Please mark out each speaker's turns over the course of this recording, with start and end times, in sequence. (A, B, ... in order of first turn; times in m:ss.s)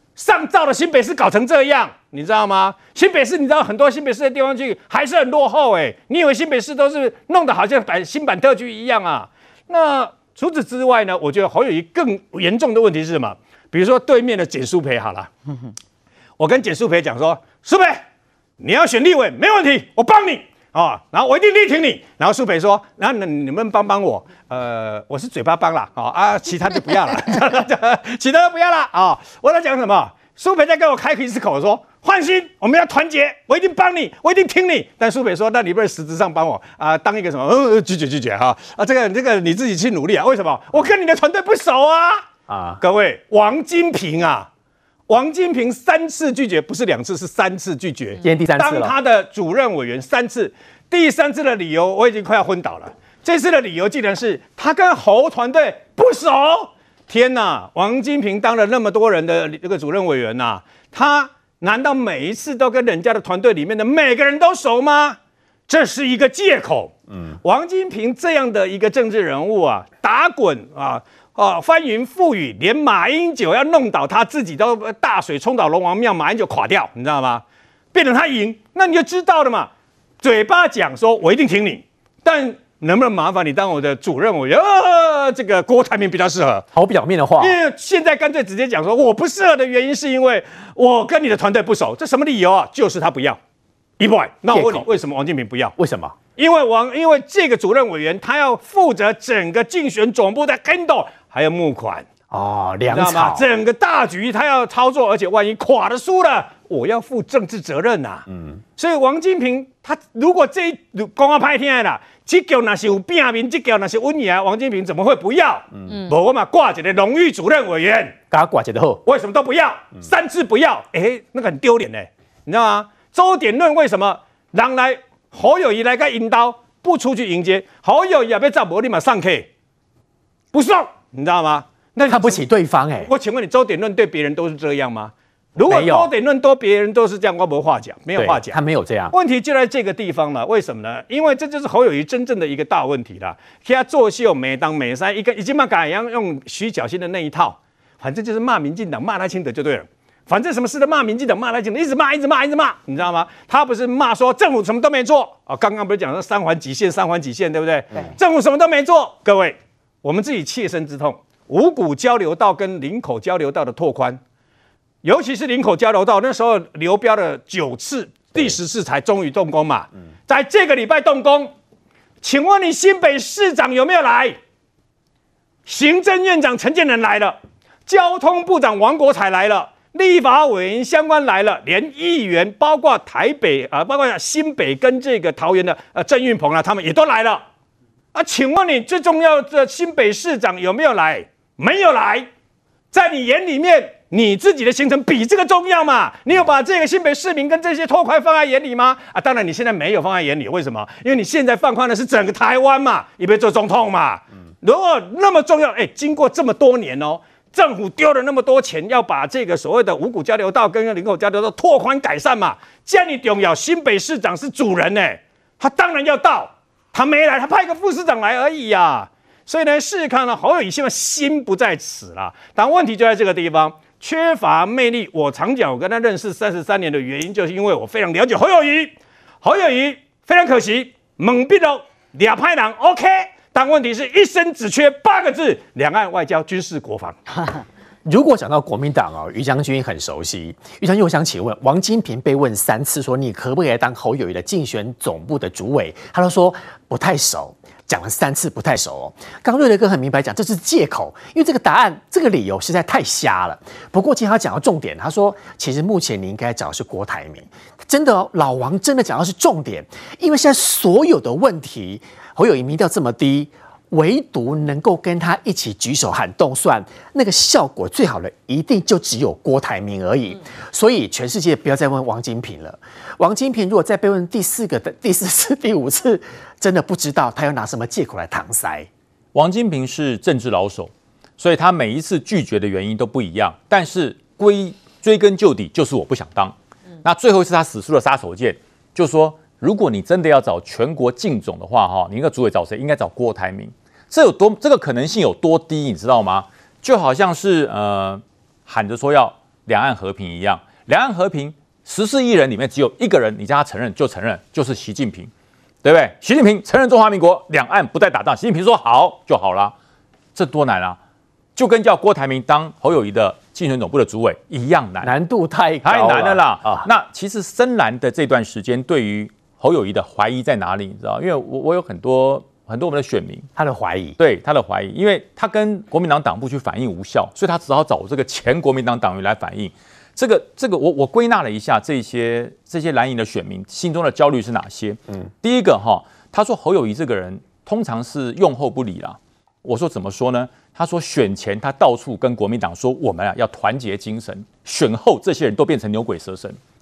0:00.2-0:15.3 A
0:16.4-0:18.0 A
0:18.6-0:42.2 A
0:42.5-0:42.8 B
0:42.8-0:44.5 A
0:45.1-1:19.7 A
0:48.2-0:48.9 B
1:20.2-1:26.7 A
1:26.7-1:27.6 B
1:27.4-1:33.4 A
1:34.0-1:35.7 A
1:34.5-1:34.9 B
1:35.8-1:36.2 B
1:36.4-1:42.0 A
1:42.3-1:43.4 B
1:42.9-1:58.2 A
1:48.3-1:48.6 B
1:58.3-1:59.0 B
1:59.0-2:09.5 A
2:10.5-2:12.4 A
2:12.0-2:13.1 B
2:13.0-2:18.6 A
2:15.6-2:16.1 B
2:18.2-2:19.1 B
2:19.1-2:44.2 A
2:45.0-2:51.5 A
2:52.2-2:54.4 A
2:55.6-3:07.4 A
3:08.1-3:12.3 A
3:12.9-3:57.2 A
3:58.0-4:38.9 B
4:39.3-5:05.3 C
5:05.8-5:09.7 C
5:10.3-5:11.0 C
5:11.6-5:15.1 C
5:15.0-5:16.9 B
5:15.8-5:23.5 C
5:23.6-5:24.2 B
5:24.2-5:46.6 C